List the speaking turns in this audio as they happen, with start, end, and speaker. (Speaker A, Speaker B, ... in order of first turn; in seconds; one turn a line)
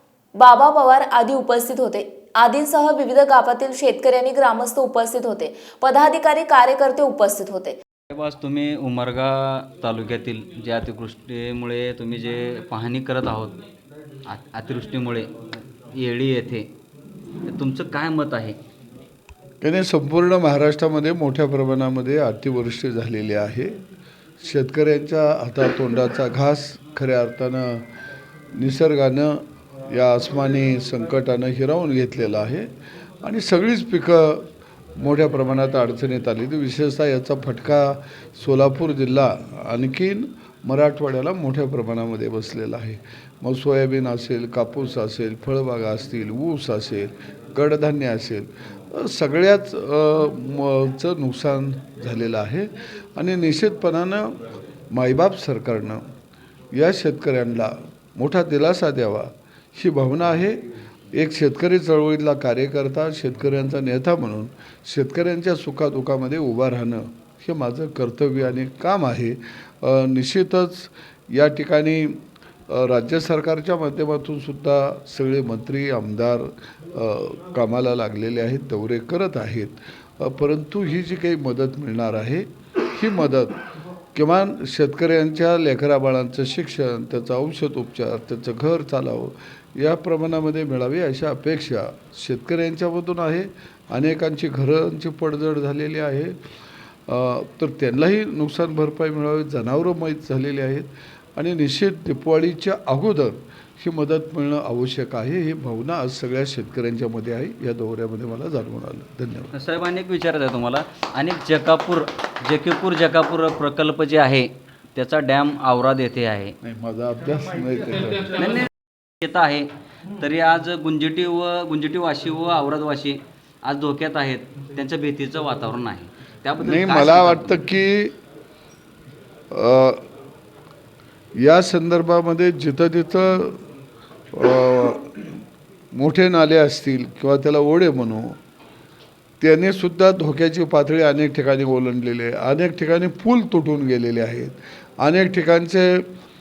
Speaker A: 0.3-7.8
Speaker B: 8.1-13.6
Speaker B: 14.2-15.3
Speaker B: 15.9-16.7
Speaker B: 17.4-18.6
Speaker C: 19.6-23.8
Speaker C: 24.4-27.9
Speaker C: 28.5-32.7
Speaker C: 33.2-56.0
Speaker C: 56.7-83.6
Speaker C: 84.1-96.4
Speaker C: 97.1-109.5
Speaker B: 109.5-116.5
Speaker C: 116.6-118.4
Speaker B: 118.4-118.7
Speaker B: 119.2-127.7
Speaker C: 126.6-128.2
Speaker C: 129.5-130.1
Speaker C: 131.3-133.6
Speaker C: 134.3-135.3
Speaker C: 135.9-138.4
Speaker C: 139.4-146.1